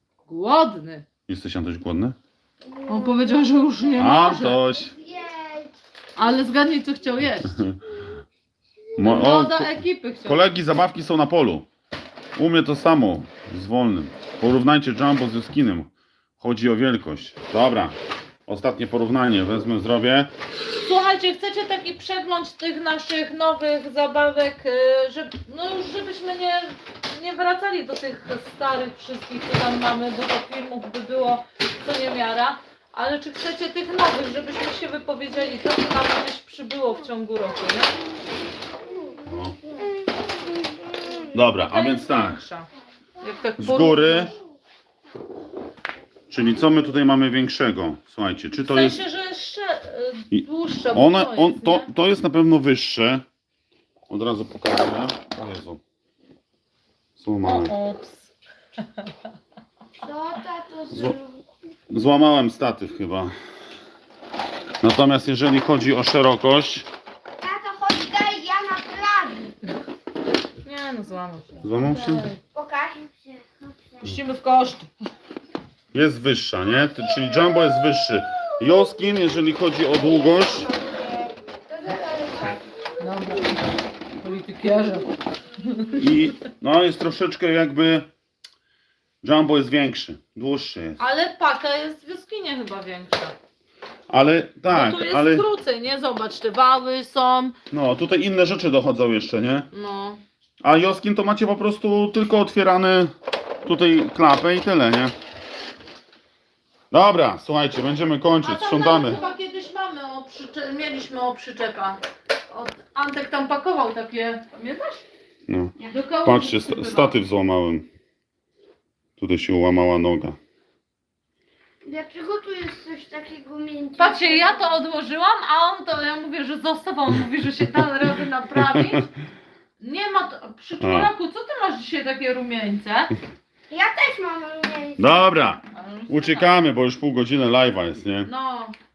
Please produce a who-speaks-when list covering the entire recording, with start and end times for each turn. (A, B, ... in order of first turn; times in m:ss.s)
0:00.2-0:01.0 A
0:01.3-0:02.2 B
0:02.9-0:04.6 A
0:04.0-0:04.9 B
0:04.8-0:05.7 C
0:06.2-0:07.6 A
0:07.4-0:07.8 B
0:09.0-0:11.7 B
0:09.0-0:10.4 A
0:12.4-0:18.0 B
0:18.5-0:20.3 B
0:20.8-0:37.9 A
0:39.3-0:39.5 B
0:41.3-0:42.4 B
0:41.4-0:42.7 A
0:43.2-0:44.3 A
0:43.6-0:44.3 B
0:46.3-0:49.0 B
0:48.6-0:51.9 A
0:50.3-0:53.2 B
0:54.1-0:55.8 B
0:57.2-0:57.7 B
0:57.4-0:58.3 A
1:00.0-1:01.4 C
1:01.9-1:03.3 B
1:04.8-1:06.9 B
1:07.4-1:09.5 C
1:10.6-1:12.4 A
1:11.6-1:12.3 B
1:12.5-1:13.0 C
1:14.0-1:14.9 A
1:15.9-1:20.7 B
1:20.0-1:22.6 C
1:23.0-1:26.2 A
1:26.0-1:28.1 B
1:29.2-1:31.0 B
1:31.0-1:33.4 A
1:34.1-1:35.4 B
1:34.7-1:37.6 A
1:37.7-1:39.7 B
1:39.7-1:40.2 A
1:40.6-1:43.1 B
1:43.6-1:45.1 B
1:46.9-1:49.2 B
1:48.4-1:55.0 A
1:55.5-1:57.8 B
1:55.8-1:57.2 A
1:59.2-2:00.4 B
2:01.8-2:04.7 C
2:04.0-2:09.1 A
2:08.6-2:09.0 B
2:09.8-2:13.1 A
2:10.8-2:11.1 B
2:13.7-2:15.3 C
2:15.0-2:18.3 B
2:15.7-2:16.5 A
2:18.2-2:18.7 A